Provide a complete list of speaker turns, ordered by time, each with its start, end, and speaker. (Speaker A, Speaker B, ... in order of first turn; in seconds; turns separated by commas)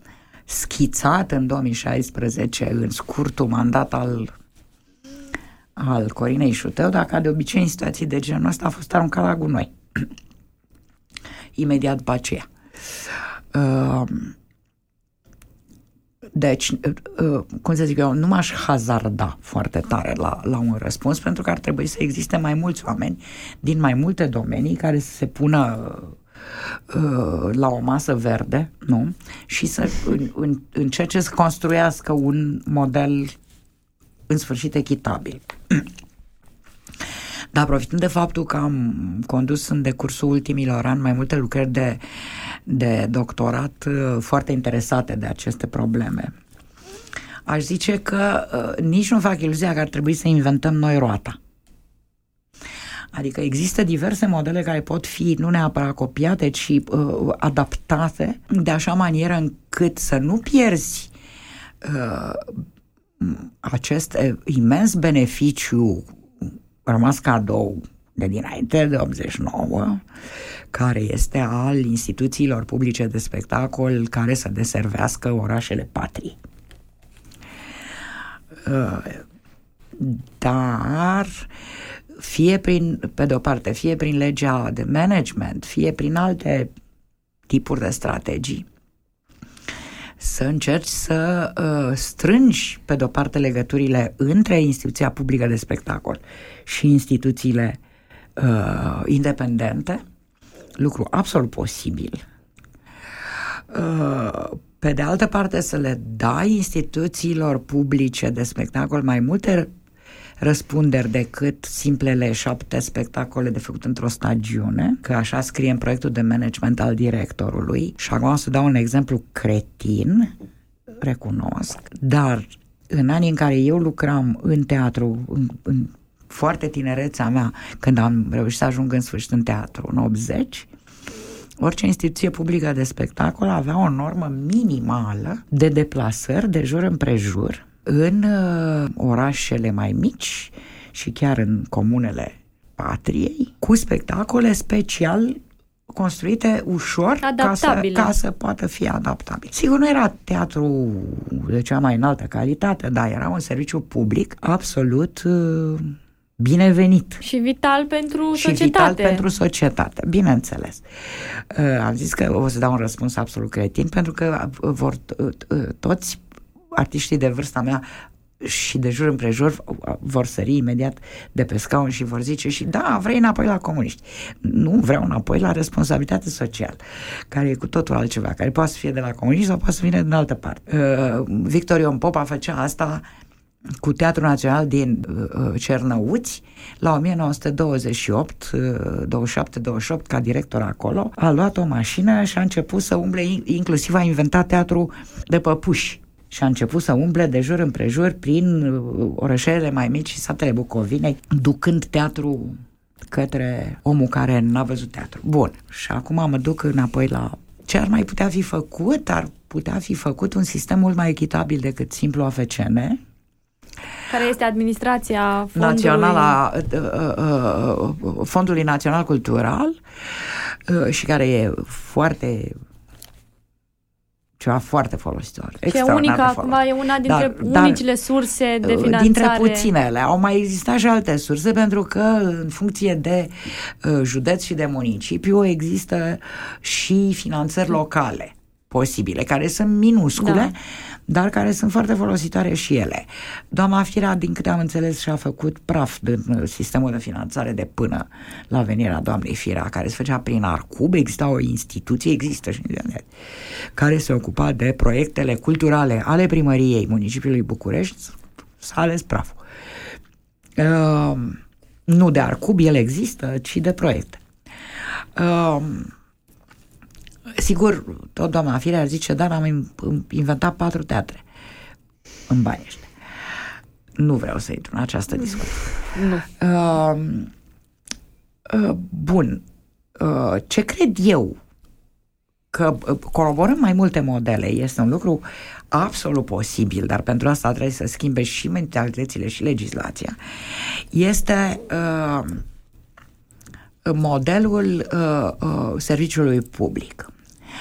Speaker A: 0.5-4.3, Speaker A: 5.8-10.1, Speaker A: 11.6-12.5, Speaker A: 13.0-14.3, Speaker A: 16.4-26.2, Speaker A: 26.9-33.4, Speaker A: 34.3-35.9, Speaker A: 37.5-46.3, Speaker A: 47.5-51.4, Speaker A: 53.1-61.1, Speaker A: 61.8-62.6, Speaker A: 63.2-70.0, Speaker A: 70.7-76.4, Speaker A: 78.6-79.2, Speaker A: 80.0-81.5, Speaker A: 82.2-86.7, Speaker A: 87.5-88.7, Speaker A: 90.2-97.8, Speaker A: 98.4-100.0, Speaker A: 100.8-102.2, Speaker A: 103.7-109.7, Speaker A: 110.4-120.3, Speaker A: 121.0-130.7, Speaker A: 131.6-157.2, Speaker B: 147.2-148.1, Speaker B: 157.2-159.3, Speaker A: 158.3-166.2, Speaker A: 166.7-167.8, Speaker A: 168.4-183.0, Speaker A: 183.8-202.6, Speaker A: 203.1-213.0, Speaker B: 214.1-216.4, Speaker A: 215.6-222.5, Speaker A: 224.4-227.8, Speaker B: 225.7-229.7, Speaker A: 228.6-240.6, Speaker B: 240.2-240.5, Speaker A: 241.1-253.1, Speaker A: 253.7-259.4, Speaker A: 260.6-264.2, Speaker A: 265.2-265.9, Speaker A: 267.4-271.2, Speaker A: 272.3-272.9, Speaker A: 274.0-277.3, Speaker B: 275.9-276.3, Speaker A: 278.5-279.4, Speaker A: 279.9-281.4, Speaker A: 282.5-292.4, Speaker A: 293.9-297.1